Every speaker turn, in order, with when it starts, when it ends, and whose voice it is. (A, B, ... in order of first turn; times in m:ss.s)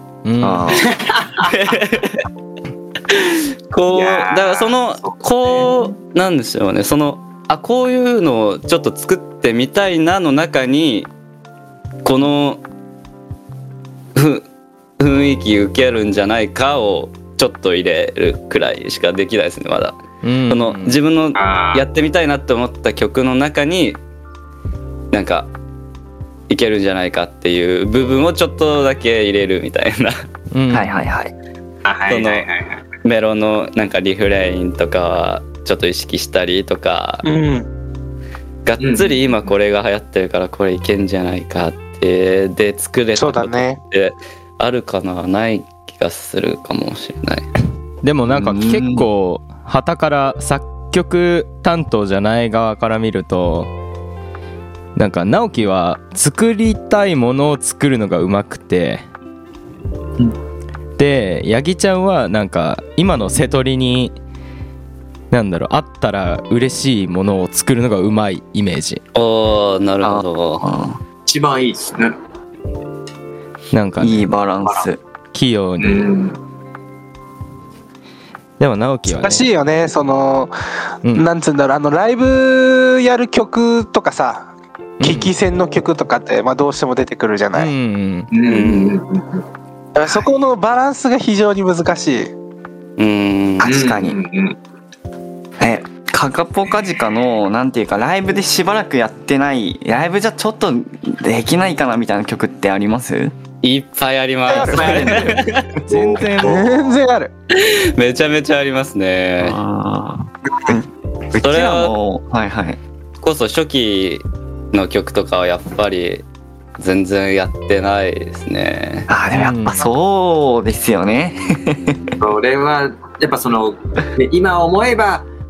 0:00.2-0:00.9 A
0:00.4-0:00.9 B
0:00.9-0:01.5 C
0:01.4-0:02.2 D
0:03.1-0:11.1 D
0:03.9-0:05.9 C
0:12.0-0:12.6 D
0:14.1-0:14.5 D
0:15.0-0:24.0 D
0:20.2-0:21.0 A
0:21.3-0:21.8 C
0:25.1-0:25.5 D
0:26.5-0:30.1 D
0:30.5-0:31.1 A
0:30.7-0:31.3 B
0:31.8-0:32.8 C
0:32.1-0:32.5 D
0:33.0-0:37.2 D
0:37.2-0:37.7 E
0:38.6-0:47.5 D
0:38.8-0:39.5 C
0:43.2-0:43.8 E
0:48.0-0:53.7 A
0:48.3-0:49.1 B
0:55.0-0:59.0 A
1:01.0-1:04.2 A
1:05.3-1:09.0 A
1:09.1-1:10.7 D
1:10.0-1:11.0 B
1:11.2-1:12.1 C
1:13.7-1:14.3 A
1:14.0-1:15.0 B
1:15.3-1:16.1 A
1:15.8-1:16.4 C
1:18.6-1:19.5 A
1:19.0-1:20.5 E
1:21.1-1:27.7 E
1:25.0-1:25.3 A
1:27.5-1:28.3 A
1:28.3-1:29.4 C
1:28.4-1:29.0 D
1:29.9-1:32.3 E
1:33.0-1:33.7 D
1:33.6-1:34.2 B
1:33.6-1:34.6 C
1:35.6-1:43.3 B
1:43.6-1:45.6 D
1:44.5-1:45.2 E
1:44.6-1:46.6 C
1:44.8-1:45.3 A
1:45.9-1:46.9 A
1:46.4-1:47.3 E
1:47.5-1:49.6 D
1:49.4-1:52.8 B
1:51.4-1:51.9 D
1:53.2-1:56.2 D
1:56.8-1:59.1 D
1:59.1-2:02.0 B
1:59.3-1:59.9 A
2:01.3-2:02.2 D
2:02.2-2:05.3 C